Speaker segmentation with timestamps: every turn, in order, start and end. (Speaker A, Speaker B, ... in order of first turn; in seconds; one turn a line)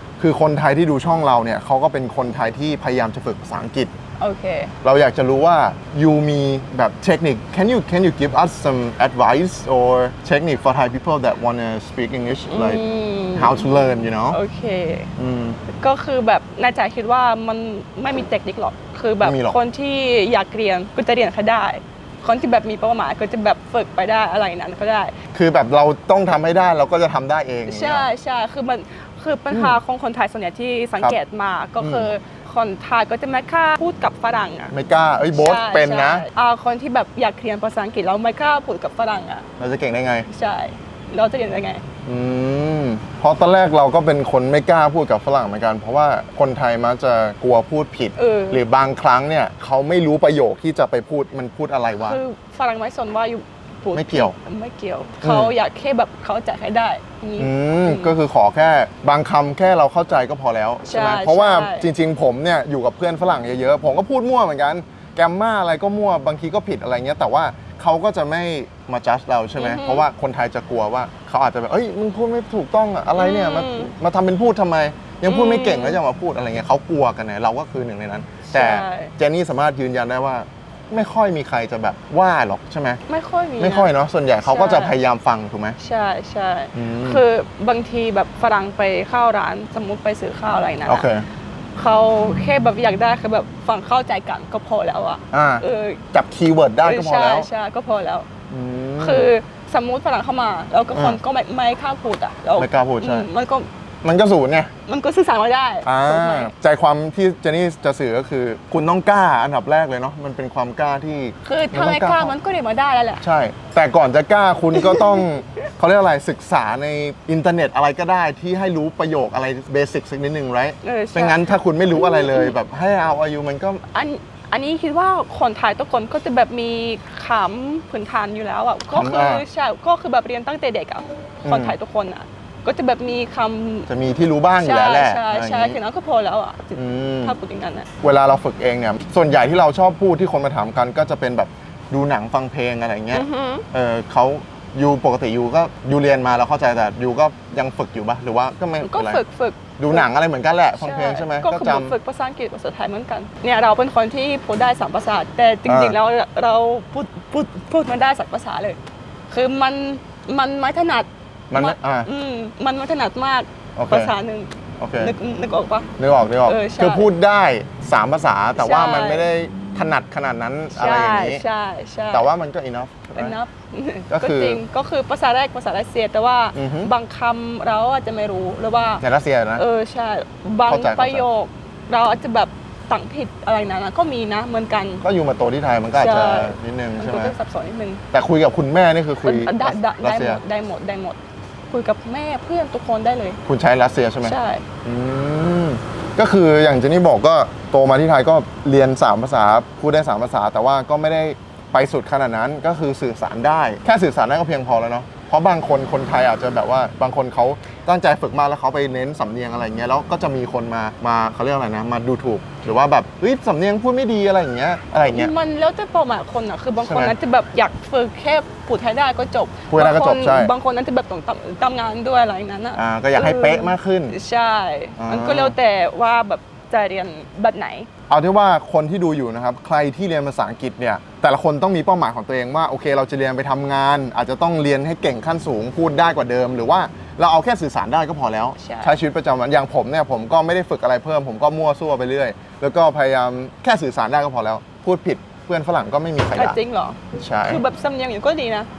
Speaker A: 0.2-3.9
Speaker B: 4.2-4.7
Speaker A: 4.8-12.8
Speaker B: 12.5-15.1
Speaker A: 13.3-14.4
Speaker A: 15.2-15.6
Speaker B: 15.7-25.1
Speaker A: 19.2-19.6
Speaker A: 25.3-28.1
Speaker B: 27.7-34.7
Speaker A: 29.5-29.8
Speaker A: 31.8-32.1
Speaker A: 34.7-36.3
Speaker B: 35.3-39.5
Speaker A: 39.6-40.3
Speaker B: 40.3-41.8
Speaker A: 42.1-52.2
Speaker B: 48.2-48.6
Speaker B: 52.0-58.1
Speaker A: 53.9-54.4
Speaker A: 55.2-55.5
Speaker A: 57.4-83.0
Speaker B: 60.9-61.9
Speaker B: 69.6-70.1
Speaker B: 73.2-73.9
Speaker B: 75.2-76.0
Speaker B: 78.5-79.1
Speaker B: 83.1-85.0
Speaker A: 83.6-85.8
Speaker B: 85.8-91.1
Speaker A: 86.7-87.2
Speaker A: 90.9-91.3
Speaker B: 91.8-96.1
Speaker A: 95.3-97.5
Speaker B: 96.8-98.3
Speaker A: 98.5-99.3
Speaker B: 99.0-103.7
Speaker A: 102.6-103.3
Speaker A: 104.0-104.7
Speaker B: 104.9-106.5
Speaker A: 105.8-112.3
Speaker B: 111.4-113.2
Speaker A: 113.2-123.8
Speaker B: 114.7-115.3
Speaker B: 120.8-122.6
Speaker B: 123.9-133.9
Speaker A: 128.9-129.4
Speaker A: 131.4-131.8
Speaker A: 133.9-135.8
Speaker B: 134.6-137.9
Speaker A: 136.8-137.4
Speaker A: 138.0-149.2
Speaker B: 143.1-143.7
Speaker B: 148.8-150.1
Speaker A: 149.8-152.0
Speaker B: 150.8-158.8
Speaker A: 155.7-155.9
Speaker B: 159.3-165.9
Speaker A: 161.5-162.1
Speaker A: 163.8-164.1
Speaker A: 164.8-165.2
Speaker A: 166.0-171.4
Speaker B: 166.4-167.1
Speaker B: 168.6-169.3
Speaker B: 170.7-172.3
Speaker A: 172.1-173.4
Speaker B: 173.2-179.0
Speaker A: 174.1-174.6
Speaker A: 176.5-176.9
Speaker A: 179.0-179.6
Speaker B: 179.6-185.0
Speaker A: 180.7-181.2
Speaker A: 185.0-187.3
Speaker B: 185.9-188.0
Speaker A: 188.1-190.4
Speaker B: 189.2-191.2
Speaker B: 191.7-193.4
Speaker A: 193.4-215.3
Speaker B: 194.2-194.6
Speaker B: 215.0-227.9
Speaker A: 216.8-217.1
Speaker A: 219.7-220.5
Speaker A: 222.8-224.2
Speaker A: 225.0-225.6
Speaker A: 228.1-246.6
Speaker B: 238.6-238.9
Speaker B: 246.3-248.7
Speaker A: 247.2-247.6